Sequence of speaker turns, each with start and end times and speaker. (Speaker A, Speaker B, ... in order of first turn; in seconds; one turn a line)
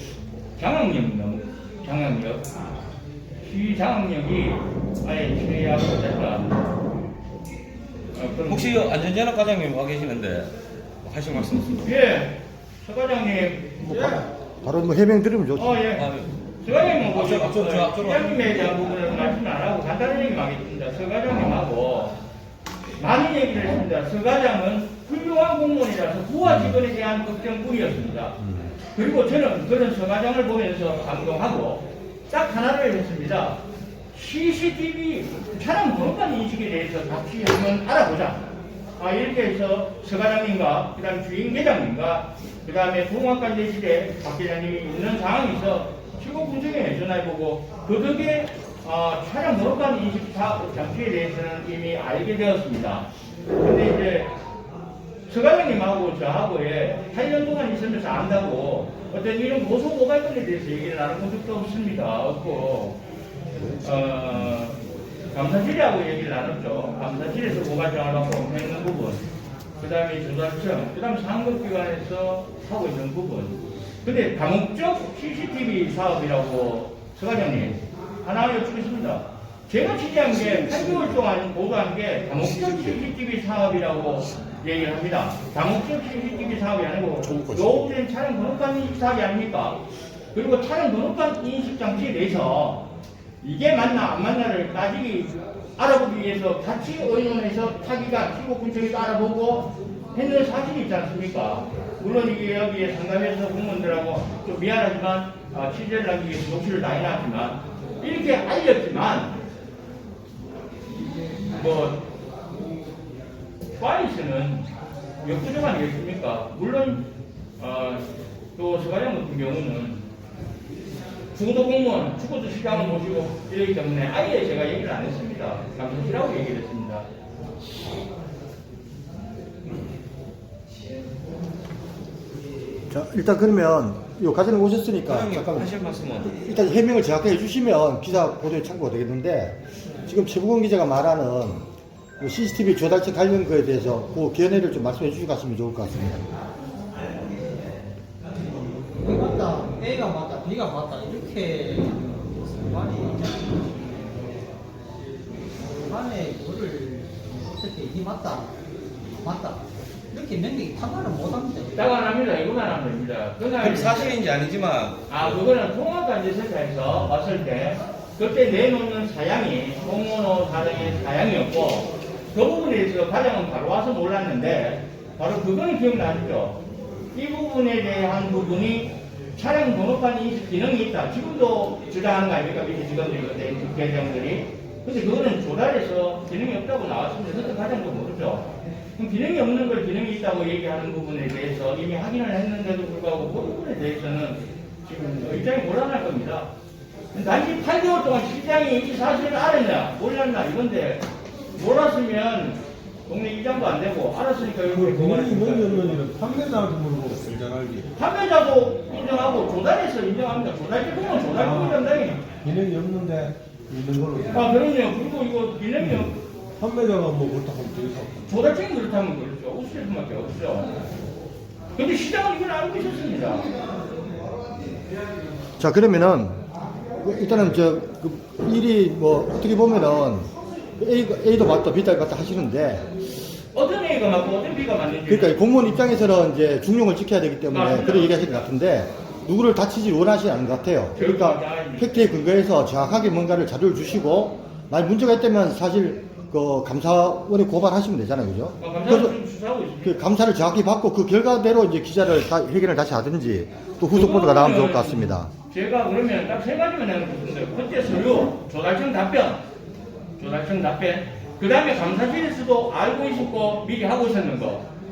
Speaker A: 0.6-2.5
Speaker A: 3.4-6.5
Speaker A: 8.2-8.9
Speaker B: 8.5-10.5
Speaker B: 11.0-11.9
Speaker A: 11.8-14.2
Speaker C: 13.8-15.8
Speaker A: 15.6-16.1
Speaker B: 16.0-18.8
Speaker A: 16.6-22.2
Speaker A: 23.0-28.4
Speaker A: 28.9-33.6
Speaker A: 34.1-38.4
Speaker A: 39.0-53.1
Speaker A: 53.6-54.3
Speaker A: 55.3-63.0
Speaker A: 63.8-64.8
Speaker A: 65.3-69.2
Speaker A: 69.8-92.9
Speaker C: 87.3-87.8
Speaker A: 93.4-109.4
Speaker A: 111.5-112.0
Speaker A: 113.8-114.7
Speaker A: 115.2-117.0
Speaker A: 117.6-120.0
Speaker A: 121.3-127.1
Speaker C: 132.9-135.7
Speaker B: 135.1-136.3
Speaker C: 136.2-141.7
Speaker C: 142.2-146.3
Speaker D: 148.8-154.4
Speaker D: 155.7-158.6
Speaker D: 159.1-161.9
Speaker A: 161.8-164.2
Speaker B: 163.6-165.4
Speaker A: 165.1-176.6
Speaker A: 177.1-196.5
Speaker A: 197.1-206.0
Speaker E: 204.7-207.9
Speaker A: 208.0-212.2
Speaker E: 211.4-214.6
Speaker A: 214.3-216.2
Speaker E: 215.8-218.2
Speaker A: 218.3-220.8
Speaker A: 221.8-223.5
Speaker C: 225.6-226.4
Speaker C: 227.0-232.9
Speaker A: 233.5-235.4
Speaker C: 235.1-249.2
Speaker A: 237.5-238.4
Speaker A: 240.9-242.1
Speaker A: 248.6-250.0
Speaker C: 249.8-255.3
Speaker A: 253.9-259.4
Speaker A: 260.2-264.7